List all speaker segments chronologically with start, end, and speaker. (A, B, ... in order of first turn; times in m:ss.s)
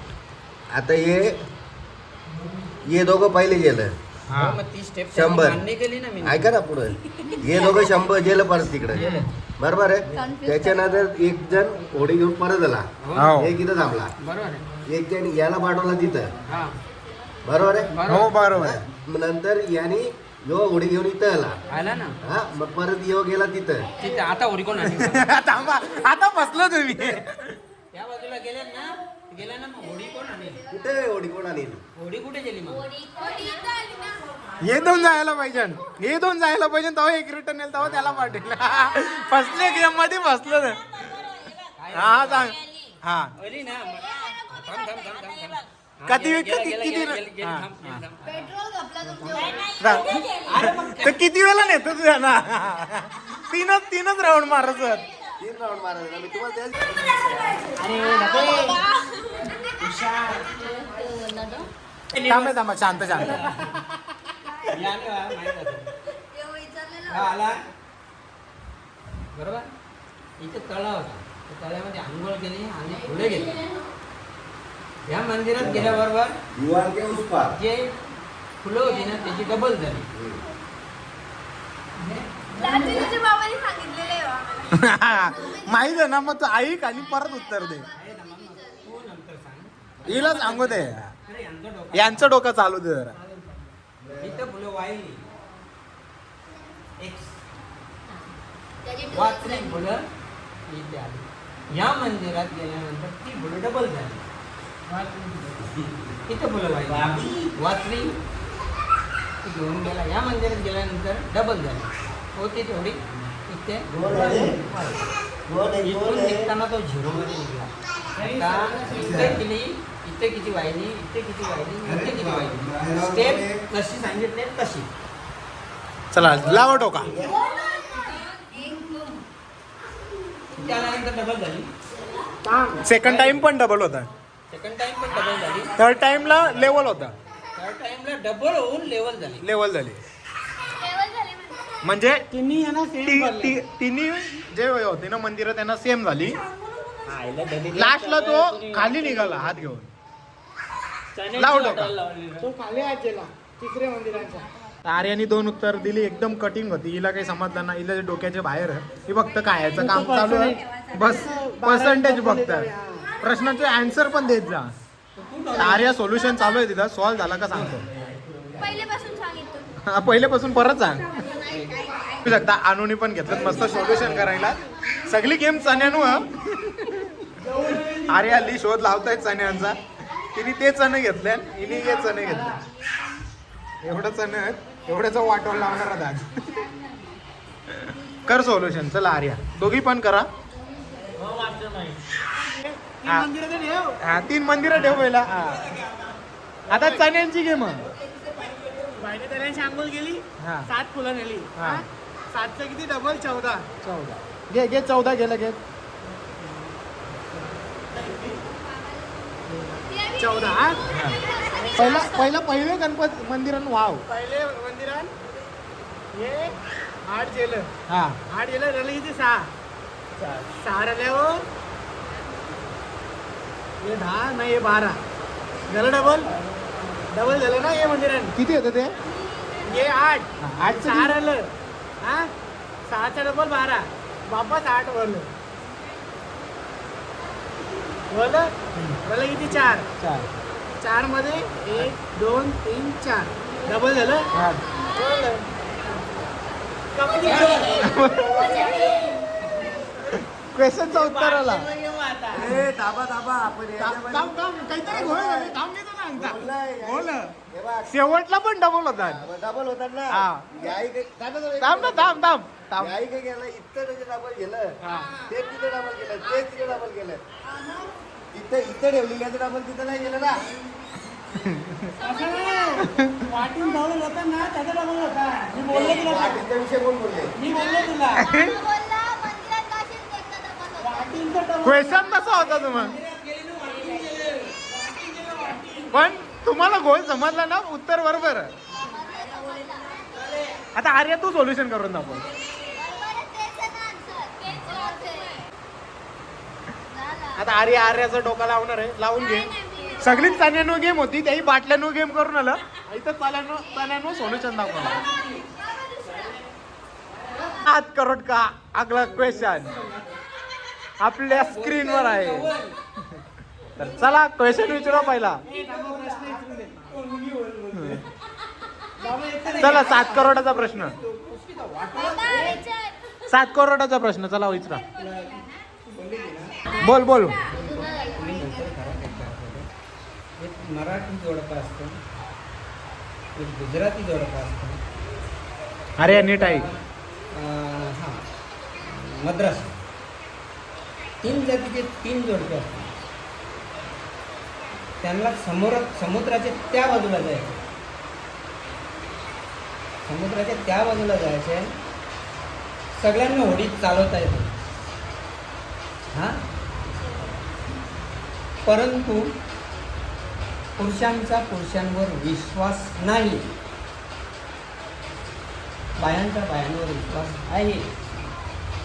0:00.7-0:01.3 A
0:02.8-0:03.9 A
0:04.3-0:04.6 B
0:04.4-0:06.6 C
0:05.1-0:05.6 A
0:06.2-0:14.1 A
0:08.9-0:09.3 C
0:10.2-0:10.6 D
0:13.0-0:13.4 C
0:13.2-0:13.6 B
0:14.2-0:14.6 C
0:14.8-0:16.3 A
0:16.5-0:16.8 C
0:17.4-0:21.6 A
0:17.9-0:18.3 C
0:18.0-0:18.8 B
0:21.7-0:22.2 C
0:22.2-0:23.9 A
0:24.0-0:25.3 C
0:24.9-0:27.5 B
0:27.9-0:30.6 C
0:30.7-0:31.8 A
0:32.0-0:32.9 C
0:32.8-0:34.3 D
0:34.6-0:40.8 B
0:41.8-0:42.5 C
0:41.9-0:43.3 B
0:43.4-0:48.5 C
0:46.0-0:48.0 B
0:48.4-0:49.7 D
0:49.1-0:49.6 C
0:49.8-0:55.0 B
0:50.2-0:51.2 C
0:55.4-0:57.7 A
0:58.2-0:58.8 D
0:59.8-1:00.6 C
1:00.9-1:01.7 D
1:02.1-1:03.6 C
1:02.2-1:03.5 B
1:04.7-1:05.9 C
1:06.4-1:07.3 D
1:07.0-1:07.6 C
1:09.3-1:09.7 C
1:10.4-1:13.6 C
1:13.3-1:13.6 D
1:15.1-1:16.3 C
1:15.6-1:17.6 A
1:17.5-1:17.9 C
1:18.6-1:20.1 C
1:20.1-1:20.4 A
1:22.0-1:23.0 C
1:22.6-1:24.7 D
1:24.7-1:27.9 B
1:27.9-1:32.4 C
1:30.0-1:31.1 B
1:31.9-1:33.2 B
1:34.0-1:34.5 A
1:34.2-1:35.2 C
1:37.0-1:37.4 C
1:38.8-1:39.7 D
1:39.1-1:40.0 C
1:40.7-1:44.2 C
1:44.9-1:45.5 E
1:46.2-1:48.2 C
1:47.0-1:47.3 A
1:49.4-1:55.0 C
1:53.9-1:54.7 A
1:55.5-1:56.5 A
1:55.8-2:04.9 C
1:58.8-1:59.4 A
2:01.8-2:03.6 A
2:06.1-2:07.1 B
2:06.5-2:07.1 C
2:07.1-2:07.4 A
2:07.3-2:09.2 D
2:10.5-2:11.7 C
2:12.4-2:12.7 E
2:12.8-2:14.1 B
2:12.9-2:13.5 C
2:14.5-2:16.8 C
2:15.8-2:17.1 B
2:17.5-2:19.4 C
2:19.4-2:20.0 B
2:20.7-2:21.8 D
2:21.8-2:22.3 B
2:22.3-2:23.5 E
2:23.0-2:26.4 B
2:27.0-2:29.6 C
2:27.7-2:29.9 B
2:31.1-2:32.5 C
2:31.3-2:31.9 B
2:32.5-2:34.4 E
2:34.8-2:42.7 B
2:39.8-2:42.8 E
2:43.2-2:44.7 B
2:45.2-2:45.9 C
2:45.6-2:47.9 B
2:48.6-2:49.7 D
2:49.8-2:51.2 B
2:51.3-2:51.8 C
2:52.2-2:59.8 B
2:53.4-2:54.2 C
3:00.3-3:02.7 B
3:03.8-3:06.6 B
3:07.7-3:10.3 B
3:12.4-3:13.8 E
3:14.0-3:15.7 B
3:16.7-3:17.9 B
3:19.0-3:23.6 E
3:20.4-3:20.7 B
3:21.6-3:21.8 B
3:23.8-3:25.6 B
3:29.9-3:32.3 D
3:30.2-3:30.8 E
3:30.9-3:31.2 B
3:31.7-3:34.0 B
3:34.1-3:35.1 E
3:36.2-3:36.5 E
3:37.1-3:37.6 E
3:37.9-3:38.2 B
3:38.3-3:39.4 E
3:40.6-3:41.3 E
3:43.9-3:44.9 E
3:45.7-3:46.2 E
3:47.1-3:48.3 E
3:48.4-3:48.9 B
3:49.7-3:50.2 E
3:50.4-3:51.2 B
3:50.7-3:51.4 E
3:52.9-3:55.3 E
3:58.1-3:58.5 E
3:59.0-3:59.8 E
4:00.0-4:00.3 B
4:00.8-4:04.2 E
4:04.3-4:04.6 B
4:05.0-4:05.4 E
4:07.0-4:07.8 E
4:07.3-4:07.8 C
4:07.5-4:08.7 B
4:08.5-4:09.1 D
4:10.1-4:11.7 B
4:10.9-4:12.6 C
4:12.3-4:15.6 A
4:13.8-4:17.3 B
4:16.2-4:18.1 A
4:17.9-4:19.2 B
4:19.0-4:27.2 A
4:20.1-4:20.5 B
4:21.6-4:22.9 B
4:28.3-4:30.5 A
4:31.3-4:32.0 B
4:32.0-4:32.8 D
4:32.0-4:36.3 E
4:32.8-4:33.2 B
4:35.7-4:37.3 A
4:37.4-4:38.1 E
4:37.5-4:41.1 D
4:38.1-4:38.6 B
4:40.9-4:42.1 E
4:41.6-4:43.0 B
4:42.3-4:45.9 C
4:45.9-4:48.5 B
4:48.7-4:50.4 D
4:48.8-4:50.6 C
4:50.7-4:52.2 B
4:52.7-4:55.5 D
4:56.9-4:57.4 D
4:57.4-5:05.0 B
4:59.4-5:00.4 D
5:04.9-5:06.4 D
5:05.1-5:05.4 C
5:07.6-5:09.8 B
5:11.0-5:12.5 B
5:11.3-5:12.7 C
5:13.8-5:15.4 B
5:13.8-5:14.8 C
5:15.4-5:17.7 C
5:16.1-5:16.4 E
5:17.7-5:18.0 B
5:19.0-5:22.6 C
5:19.6-5:21.0 B
5:22.0-5:23.0 D
5:23.3-5:24.8 B
5:25.0-5:26.6 C
5:26.7-5:27.4 B
5:27.5-5:29.7 C
5:27.5-5:28.6 D
5:30.4-5:32.0 C
5:33.4-5:34.8 C
5:36.0-5:36.7 B
5:36.4-5:36.7 C
5:37.3-5:38.2 C
5:38.8-5:39.8 C
5:41.2-5:42.9 C
5:45.0-5:47.5 C
5:50.0-5:51.7 C
5:52.9-5:54.5 C
5:56.1-5:56.4 C
5:58.6-5:59.2 C
6:00.8-6:03.5 C
6:06.0-6:07.9 C